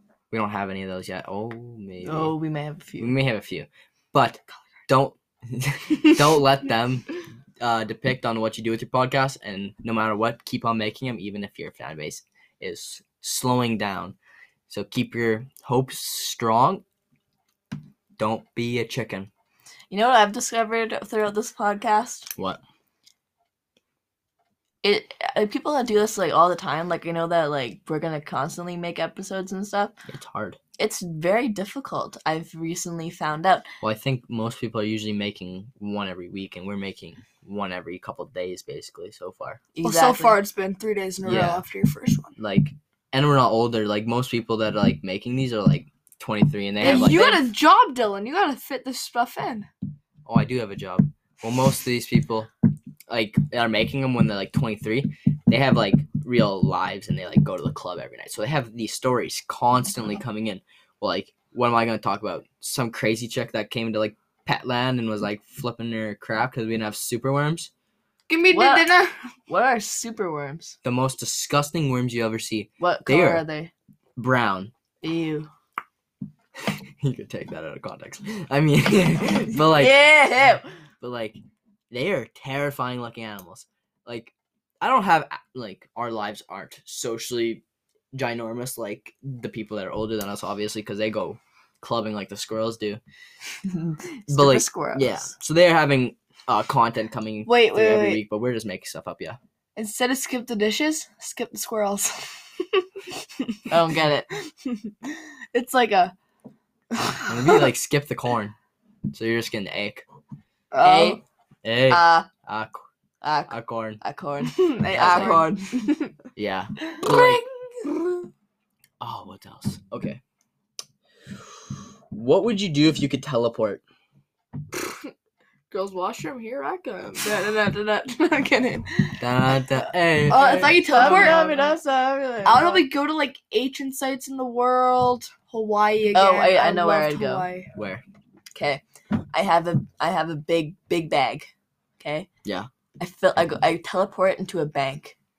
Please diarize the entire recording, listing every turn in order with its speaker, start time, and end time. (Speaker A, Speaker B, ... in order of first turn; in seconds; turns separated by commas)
Speaker A: 0.3-2.3, Speaker B: 2.0-3.1, Speaker A: 3.0-14.1, Speaker A: 14.7-16.8, Speaker A: 18.2-19.3, Speaker B: 19.9-22.3, Speaker B: 24.8-29.9, Speaker A: 30.1-30.6, Speaker B: 30.8-33.7, Speaker A: 33.8-39.6, Speaker B: 39.7-40.4, Speaker C: 39.8-42.3, Speaker A: 41.2-41.6, Speaker A: 42.4-47.5, Speaker C: 46.8-49.7, Speaker B: 46.8-47.4, Speaker A: 50.2-52.5, Speaker A: 53.1-67.7, Speaker C: 68.3-69.2, Speaker B: 68.5-68.9, Speaker B: 69.5-70.8, Speaker A: 70.8-73.4, Speaker B: 72.8-73.7, Speaker A: 74.2-74.7, Speaker B: 75.0-75.5, Speaker A: 76.6-80.0, Speaker B: 79.6-80.6, Speaker A: 81.0-81.4, Speaker A: 81.9-93.0, Speaker B: 93.7-95.3, Speaker A: 94.3-99.4, Speaker C: 97.4-98.2, Speaker C: 99.8-102.8, Speaker B: 103.7-104.3, Speaker C: 104.6-106.1, Speaker C: 106.9-107.7, Speaker A: 107.3-108.5, Speaker A: 109.1-110.0, Speaker C: 110.7-111.2, Speaker B: 110.8-111.2, Speaker A: 111.6-112.8, Speaker B: 111.9-112.3, Speaker B: 113.2-116.0, Speaker A: 113.5-114.0, Speaker C: 114.4-116.0, Speaker A: 114.9-115.5, Speaker A: 116.3-117.4, Speaker C: 116.9-118.2, Speaker A: 119.0-120.2, Speaker A: 122.1-123.8, Speaker C: 125.7-129.2, Speaker A: 129.2-131.4, Speaker C: 130.2-131.8, Speaker B: 130.3-132.9, Speaker C: 132.4-137.7, Speaker B: 136.1-137.5, Speaker A: 137.7-138.0, Speaker B: 138.5-142.3, Speaker B: 143.0-145.2